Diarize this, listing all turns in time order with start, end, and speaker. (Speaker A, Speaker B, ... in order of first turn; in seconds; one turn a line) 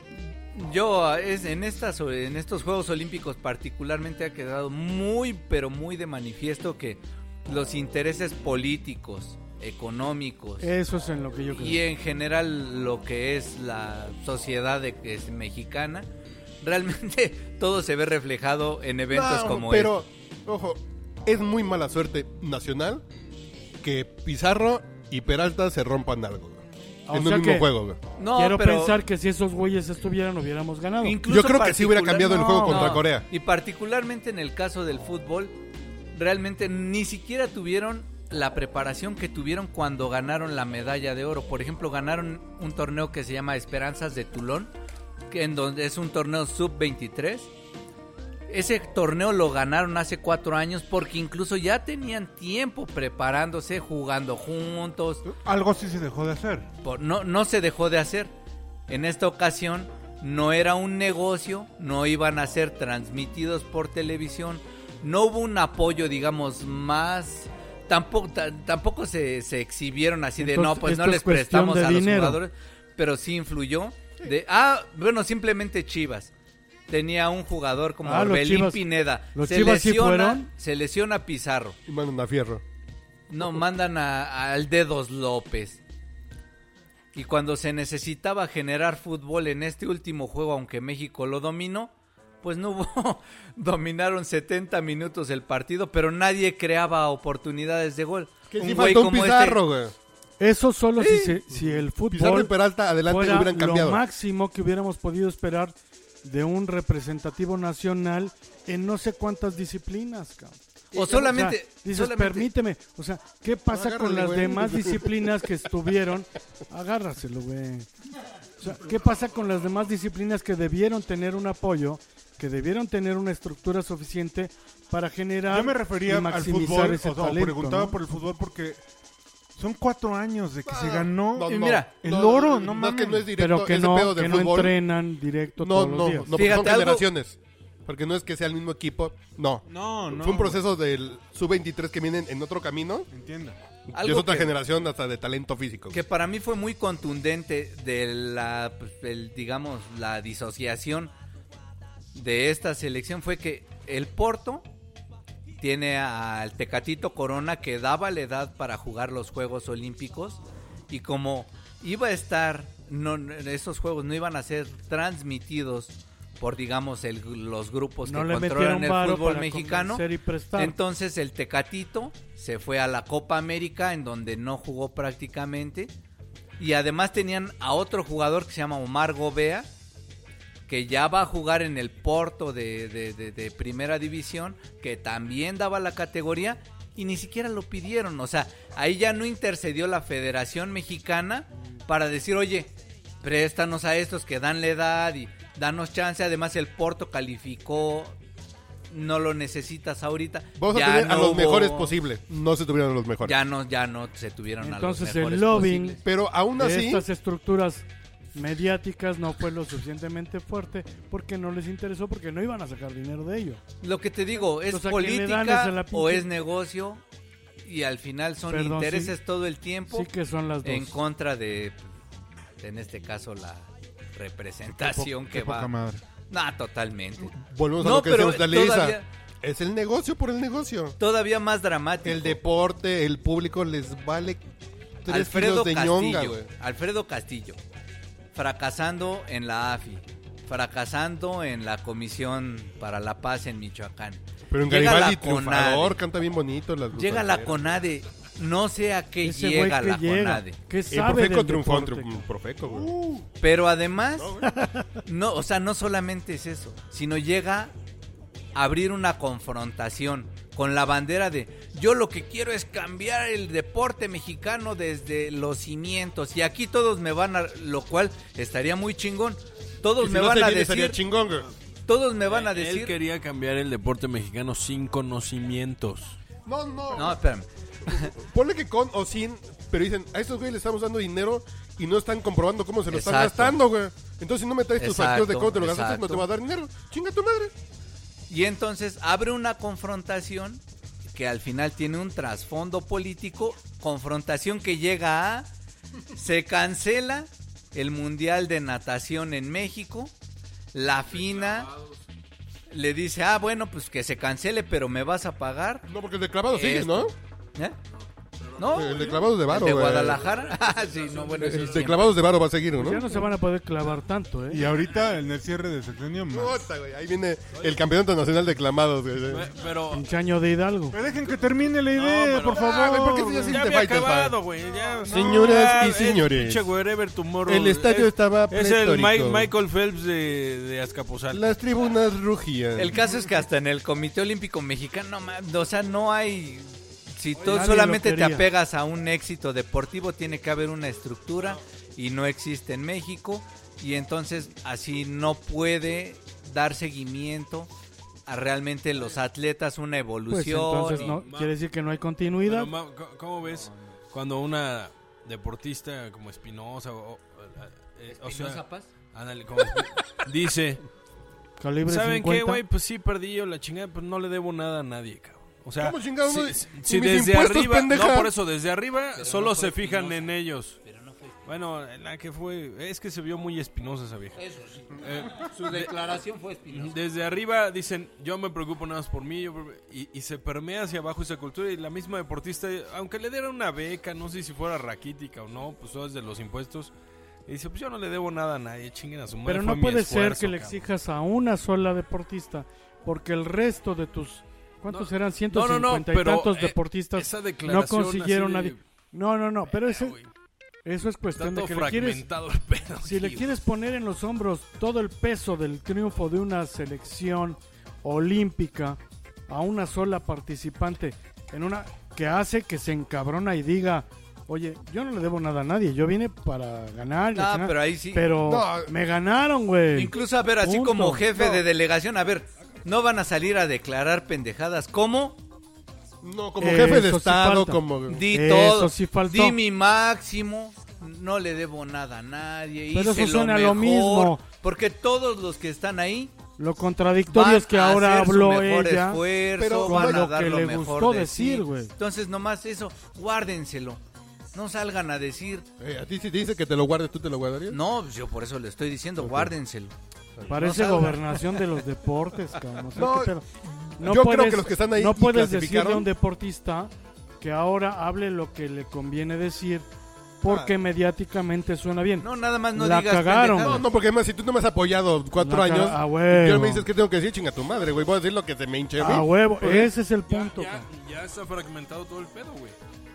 Speaker A: 0.5-10.7
Speaker B: 10.6-11.8
Speaker A: 11.6-16.1
Speaker A: 16.6-20.0
Speaker C: 19.1-23.0
Speaker C: 23.8-28.0
Speaker B: 27.1-27.7
Speaker A: 28.2-29.0
Speaker B: 28.4-31.2
Speaker A: 31.0-35.5
Speaker C: 31.3-33.3
Speaker B: 32.4-33.0
Speaker A: 36.1-44.7
Speaker A: 45.3-47.5
Speaker A: 48.5-55.2
Speaker D: 55.3-56.7
Speaker A: 56.8-58.3
Speaker A: 58.9-76.3
Speaker B: 70.4-72.4
Speaker A: 76.9-81.8
Speaker B: 78.0-78.8
Speaker B: 79.3-80.5
Speaker C: 81.9-82.6
Speaker A: 83.3-85.8
Speaker A: 87.1-99.6
Speaker C: 98.5-100.0
Speaker B: 100.4-102.5
Speaker C: 101.0-104.0
Speaker B: 103.0-117.9
Speaker A: 110.9-112.5
Speaker C: 113.7-115.2
Speaker B: 118.6-128.0
Speaker D: 125.5-128.8
Speaker D: 129.6-133.3
Speaker C: 130.7-134.8
Speaker A: 131.5-131.9
Speaker B: 133.4-136.3
Speaker C: 135.6-143.1
Speaker A: 136.3-137.1
Speaker D: 139.7-140.6
Speaker D: 143.1-143.6
Speaker C: 143.9-146.0
Speaker A: 143.9-144.5
Speaker A: 145.9-151.1
Speaker A: 152.1-154.7
Speaker A: 155.6-170.1
Speaker B: 168.1-170.8
Speaker A: 170.6-175.9
Speaker A: 176.6-179.7
Speaker A: 180.7-198.2
Speaker A: 198.9-201.9
Speaker C: 200.6-203.4
Speaker A: 203.2-206.0
Speaker B: 204.6-206.0
Speaker C: 206.0-207.0
Speaker B: 206.6-213.6
Speaker A: 213.8-217.0
Speaker B: 214.6-216.3
Speaker A: 217.6-220.1
Speaker B: 218.5-219.2
Speaker B: 219.9-221.0
Speaker A: 220.6-221.8
Speaker A: 222.6-225.7
Speaker D: 224.8-226.0
Speaker A: 226.3-229.1
Speaker C: 227.4-231.0
Speaker A: 231.0-232.4
Speaker C: 232.0-234.4
Speaker C: 235.1-236.5
Speaker A: 235.1-237.6
Speaker A: 238.3-246.0
Speaker C: 244.5-247.6
Speaker A: 246.9-250.6
Speaker B: 249.2-252.2
Speaker C: 250.9-252.9
Speaker D: 252.7-253.3
Speaker A: 253.4-254.4
Speaker C: 254.2-254.5
Speaker B: 254.5-254.9
Speaker A: 255.1-257.7
Speaker A: 258.6-271.0
Speaker C: 270.0-271.5
Speaker A: 271.9-273.0
Speaker E: 272.2-276.2
Speaker C: 276.5-277.2
Speaker A: 276.9-278.1
Speaker C: 277.9-287.5
Speaker A: 282.9-283.6
Speaker A: 284.8-286.3
Speaker A: 288.3-295.5
Speaker A: 296.1-300.1
Speaker A: 300.7-301.7
Speaker E: 301.1-302.0
Speaker A: 302.7-305.9
Speaker C: 305.9-307.1
Speaker A: 306.5-307.8
Speaker E: 308.0-309.2
Speaker A: 308.6-312.2
Speaker C: 308.6-310.3
Speaker E: 310.2-311.9
Speaker C: 311.4-313.2
Speaker B: 312.8-314.6
Speaker D: 314.5-316.7
Speaker C: 316.3-319.5
Speaker E: 319.3-320.1
Speaker B: 319.9-321.0
Speaker D: 320.9-323.6
Speaker E: 321.9-331.6
Speaker C: 322.6-324.4
Speaker C: 325.1-326.7
Speaker C: 327.4-329.5
Speaker C: 331.3-333.0
Speaker A: 332.8-347.7
Speaker B: 337.4-338.5
Speaker A: 348.3-351.2
Speaker B: 350.3-352.7
Speaker E: 350.9-351.6
Speaker E: 352.4-360.8
Speaker A: 353.4-353.9
Speaker A: 358.1-358.9
Speaker B: 361.6-362.6
Speaker E: 361.9-370.8
Speaker C: 365.8-368.3
Speaker A: 369.2-371.4
Speaker E: 371.4-374.4
Speaker A: 374.4-377.0
Speaker E: 375.0-376.0
Speaker E: 376.7-386.9
Speaker E: 387.5-390.9
Speaker B: 389.4-400.2
Speaker E: 394.9-398.8
Speaker E: 399.7-400.3
Speaker B: 400.9-402.2
Speaker E: 401.4-403.6
Speaker B: 403.0-421.4
Speaker A: 417.4-418.3
Speaker C: 418.4-418.9
Speaker A: 419.9-425.4
Speaker C: 421.4-421.6
Speaker C: 426.2-428.2
Speaker B: 426.6-429.6
Speaker A: 428.1-436.3
Speaker B: 432.9-434.4
Speaker B: 436.6-439.2
Speaker A: 437.3-444.0
Speaker C: 439.6-440.3
Speaker B: 439.8-441.9
Speaker A: 444.5-445.7
Speaker C: 445.8-447.8
Speaker A: 447.7-449.9
Speaker C: 449.2-449.5
Speaker B: 450.5-453.4
Speaker A: 450.5-451.6
Speaker C: 453.0-453.3
Speaker B: 454.0-459.9
Speaker C: 454.0-456.1
Speaker B: 460.4-463.8
Speaker C: 460.4-460.7
Speaker A: 462.2-463.9
Speaker C: 463.6-469.9
Speaker B: 465.4-466.9
Speaker B: 469.0-470.9
Speaker E: 470.3-472.8